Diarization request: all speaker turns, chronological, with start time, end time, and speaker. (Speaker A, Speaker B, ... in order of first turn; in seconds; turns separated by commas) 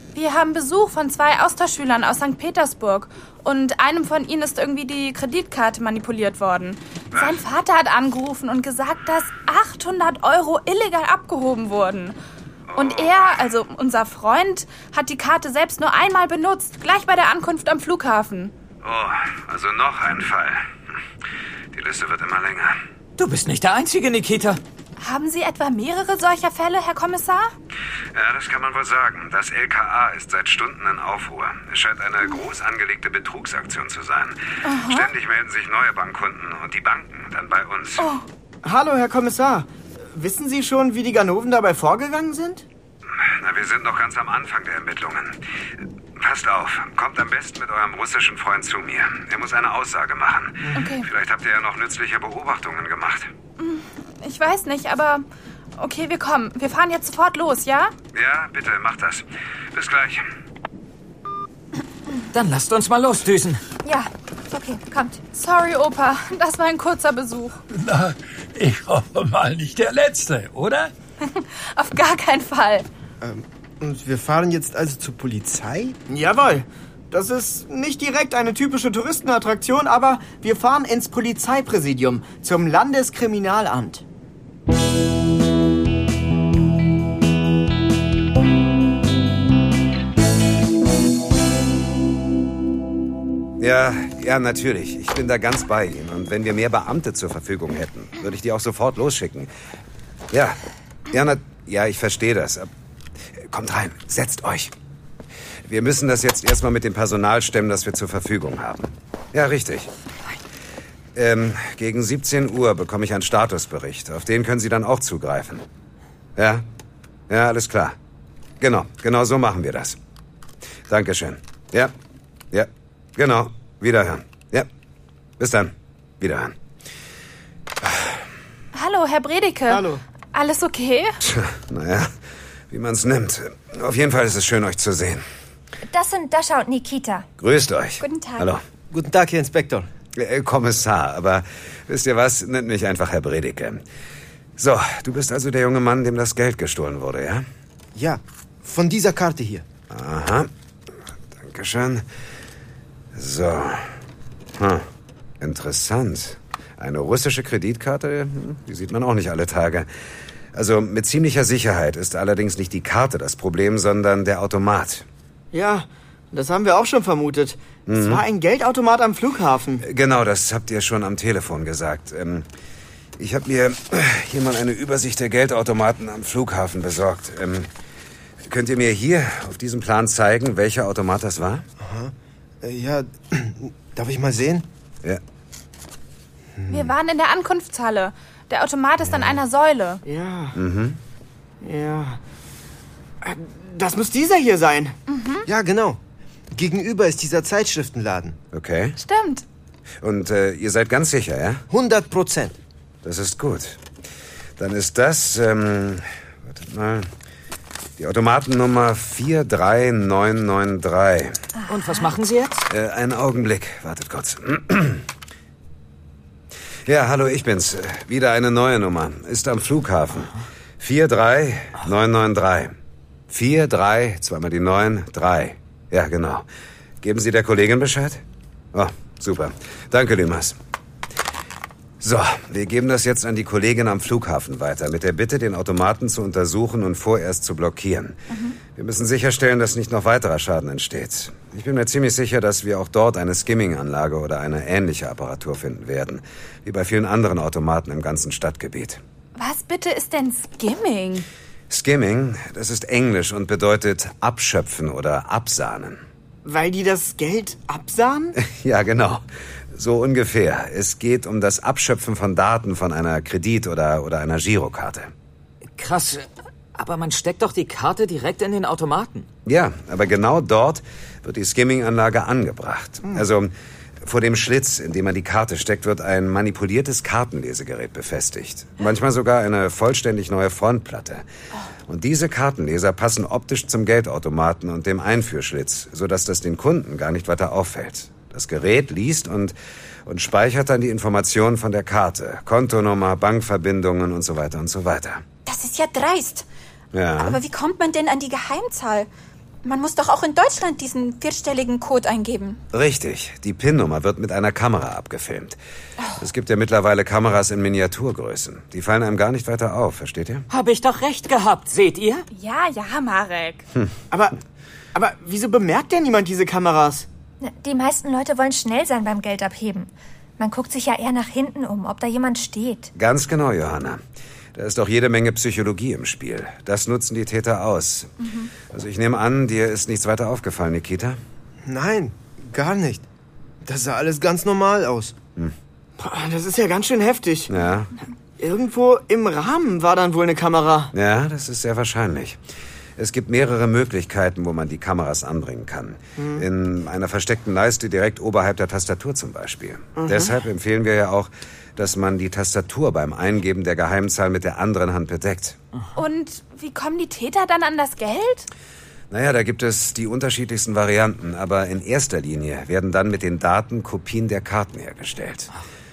Speaker A: 0.1-12.2, Speaker B: 7.1-7.4, Speaker B: 12.7-13.4, Speaker A: 12.8-18.5, Speaker B: 18.8-20.6, Speaker B: 21.7-22.8, Speaker C: 23.2-24.6, Speaker A: 25.0-27.5, Speaker B: 28.1-38.1, Speaker A: 34.6-35.1, Speaker A: 38.0-38.2, Speaker D: 38.6-42.6, Speaker B: 43.4-45.4, Speaker B: 46.2-53.3, Speaker A: 50.7-51.1, Speaker A: 53.6-55.3, Speaker A: 55.8-57.9, Speaker B: 58.1-60.2, Speaker C: 62.3-63.6, Speaker E: 63.9-65.2, Speaker A: 65.3-67.6, Speaker F: 67.7-70.9, Speaker A: 71.2-72.9, Speaker G: 73.2-76.0, Speaker D: 76.1-84.0, Speaker B: 93.6-99.5, Speaker B: 100.3-100.6, Speaker B: 101.1-102.7, Speaker B: 103.5-104.7, Speaker B: 105.7-109.9, Speaker B: 111.2-115.6, Speaker B: 116.4-116.6, Speaker B: 117.3-118.0, Speaker B: 118.6-120.0, Speaker B: 120.9-121.9, Speaker B: 122.5-124.7, Speaker B: 125.4-126.5, Speaker B: 127.8-128.1, Speaker A: 128.7-131.2, Speaker D: 129.7-130.0, Speaker B: 131.2-132.1, Speaker B: 132.7-135.2, Speaker E: 135.9-137.3, Speaker B: 137.4-138.6, Speaker H: 138.0-138.5, Speaker G: 138.9-139.9, Speaker B: 140.2-143.8, Speaker B: 144.6-147.4, Speaker G: 147.9-149.7, Speaker B: 149.9-150.5, Speaker B: 151.4-152.1, Speaker B: 153.2-153.9, Speaker B: 154.6-154.8, Speaker B: 155.4-159.9, Speaker B: 160.5-165.1, Speaker D: 165.5-169.8, Speaker B: 167.9-168.2, Speaker B: 169.8-172.5, Speaker B: 173.2-177.7, Speaker B: 178.4-181.7, Speaker G: 181.8-184.7, Speaker G: 186.6-186.9, Speaker A: 186.7-190.0, Speaker G: 189.1-189.3, Speaker D: 190.1-190.6, Speaker B: 190.6-191.0, Speaker D: 191.6-192.2, Speaker D: 193.2-195.0, Speaker A: 195.1-195.5, Speaker G: 195.4-196.0, Speaker G: 196.5-198.4, Speaker B: 198.5-199.0, Speaker A: 199.0-199.4, Speaker B: 200.0-201.6, Speaker G: 201.7-202.6, Speaker B: 203.0-203.8, Speaker B: 204.6-207.1, Speaker B: 208.0-211.5, Speaker C: 211.7-212.7, Speaker B: 212.7-215.1, Speaker B: 216.9-222.7, Speaker B: 223.3-226.4, Speaker B: 227.0-228.2, Speaker B: 228.7-230.6, Speaker B: 232.0-249.0, Speaker A: 249.4-251.3, Speaker B: 251.7-256.0, Speaker D: 256.4-258.4, Speaker B: 258.4-265.1, Speaker C: 265.8-269.3, Speaker B: 269.5-281.2, Speaker B: 281.9-289.5, Speaker B: 290.1-295.2, Speaker H: 295.5-296.5, Speaker B: 296.9-297.4, Speaker H: 297.2-299.1, Speaker H: 299.6-302.6, Speaker B: 302.7-305.6, Speaker B: 306.1-310.4, Speaker C: 310.5-312.3, Speaker A: 312.3-313.7, Speaker D: 314.9-317.1, Speaker E: 317.4-322.9, Speaker B: 322.9-324.0, Speaker B: 324.6-331.2, Speaker G: 331.6-333.1, Speaker G: 333.6-335.2, Speaker D: 336.0-337.5, Speaker B: 337.5-337.9, Speaker D: 338.4-340.9, Speaker B: 340.9-342.4, Speaker B: 343.0-355.6, Speaker D: 346.2-346.4, Speaker D: 350.0-350.4, Speaker A: 355.9-358.5, Speaker B: 359.1-365.5